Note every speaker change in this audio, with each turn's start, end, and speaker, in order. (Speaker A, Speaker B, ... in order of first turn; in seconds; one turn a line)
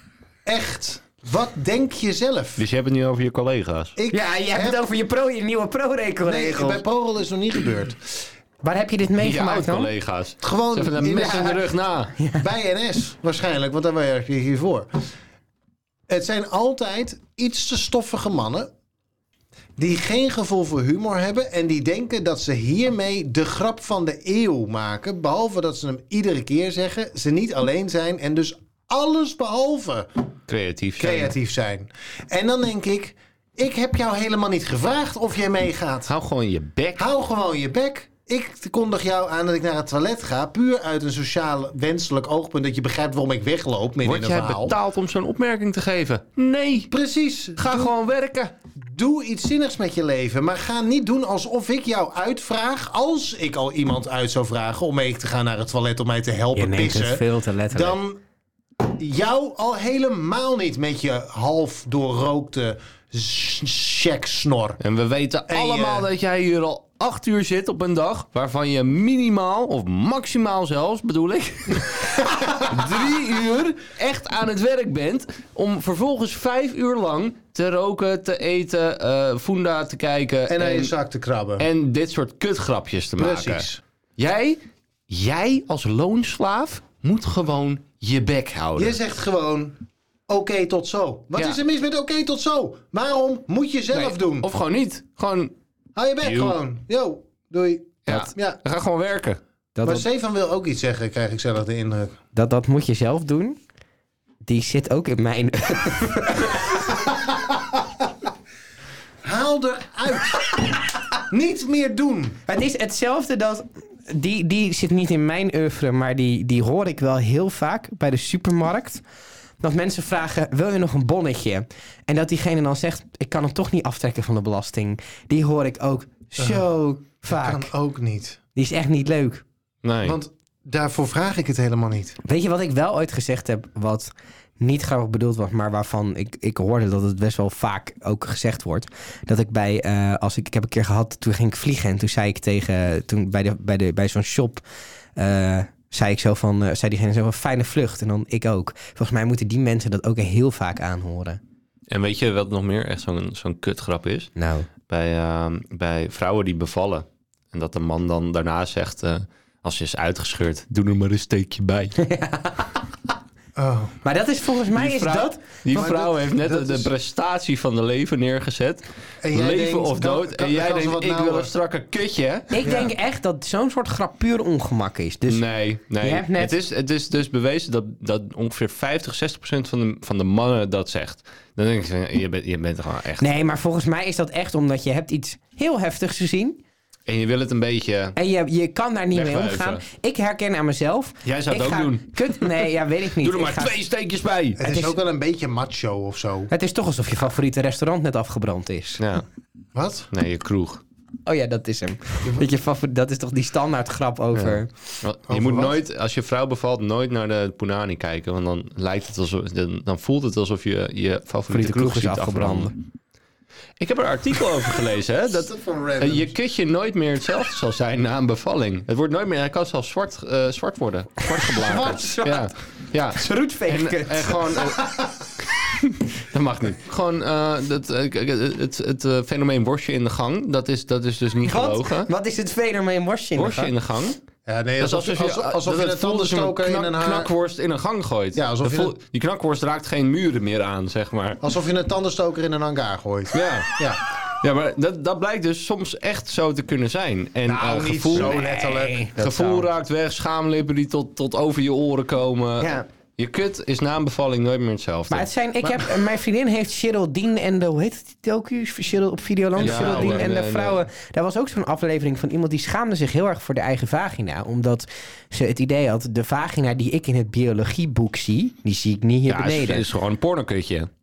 Speaker A: 0.5-2.6
Speaker B: 2.6-3.9
Speaker A: 4.0-4.8
Speaker C: 4.1-6.8
Speaker A: 6.2-8.0
Speaker C: 8.6-9.9
Speaker B: 9.2-12.1
Speaker A: 10.4-11.7
Speaker C: 12.2-12.4
Speaker A: 12.3-14.9
Speaker A: 16.1-18.7
Speaker A: 19.8-30.1
Speaker B: 30.5-31.3
Speaker A: 31.0-36.1
Speaker B: 36.1-37.0
Speaker A: 37.0-44.8
Speaker B: 44.0-46.9
Speaker A: 46.9-47.9
Speaker B: 47.6-48.5
Speaker A: 48.7-58.2
Speaker C: 56.5-58.0
Speaker A: 58.8-64.8
Speaker B: 64.8-80.9
Speaker A: 65.5-66.1
Speaker A: 72.3-72.7
Speaker A: 80.5-81.7
Speaker B: 81.6-83.7
Speaker A: 83.2-83.8
Speaker B: 84.2-89.0
Speaker A: 88.8-94.5
Speaker B: 94.0-95.5
Speaker A: 96.0-98.6
Speaker B: 96.2-96.6
Speaker B: 98.0-99.4
Speaker C: 99.8-100.0
Speaker A: 99.8-102.2
Speaker C: 102.3-103.6
Speaker C: 104.4-106.8
Speaker A: 106.8-108.0
Speaker A: 109.2-112.4
Speaker C: 112.5-119.0
Speaker C: 119.6-127.7
Speaker A: 126.4-126.7
Speaker A: 127.2-128.4
Speaker C: 128.6-129.4
Speaker B: 129.8-130.2
Speaker A: 130.0-132.2
Speaker C: 132.2-144.6
Speaker C: 145.2-151.4
Speaker B: 151.9-154.3
Speaker C: 154.3-154.7
Speaker B: 154.9-161.9
Speaker C: 162.0-162.7
Speaker A: 163.6-164.0
Speaker C: 164.0-165.6
Speaker B: 164.7-172.7
Speaker A: 165.7-166.9
Speaker A: 169.2-171.5
Speaker C: 172.5-175.4
Speaker A: 172.6-172.9
Speaker B: 175.3-183.3
Speaker C: 176.0-176.5
Speaker C: 183.2-186.6
Speaker B: 187.1-188.2
Speaker C: 188.2-193.7
Speaker B: 189.1-189.8
Speaker B: 191.2-194.6
Speaker A: 194.6-196.5
Speaker C: 194.6-194.9
Speaker C: 196.5-199.0
Speaker B: 199.0-199.2
Speaker A: 199.7-200.1
Speaker B: 200.1-200.8
Speaker C: 201.2-204.7
Speaker A: 202.2-202.5
Speaker B: 204.3-212.8
Speaker A: 205.3-205.8
Speaker C: 211.5-212.7
Speaker B: 213.8-232.1
Speaker A: 215.4-216.3
Speaker A: 221.6-222.2
Speaker C: 221.8-222.4
Speaker C: 223.1-224.4
Speaker C: 231.4-233.7
Speaker B: 233.3-234.2
Speaker A: 234.4-237.3
Speaker B: 234.8-241.4
Speaker A: 238.3-238.9
Speaker A: 241.4-244.0
Speaker B: 243.3-243.8
Speaker B: 244.4-248.3
Speaker A: 247.4-249.0
Speaker C: 248.1-249.7
Speaker B: 249.2-255.3
Speaker C: 252.6-252.8
Speaker C: 255.1-269.8
Speaker A: 259.6-260.3
Speaker B: 259.6-260.9
Speaker B: 269.3-270.9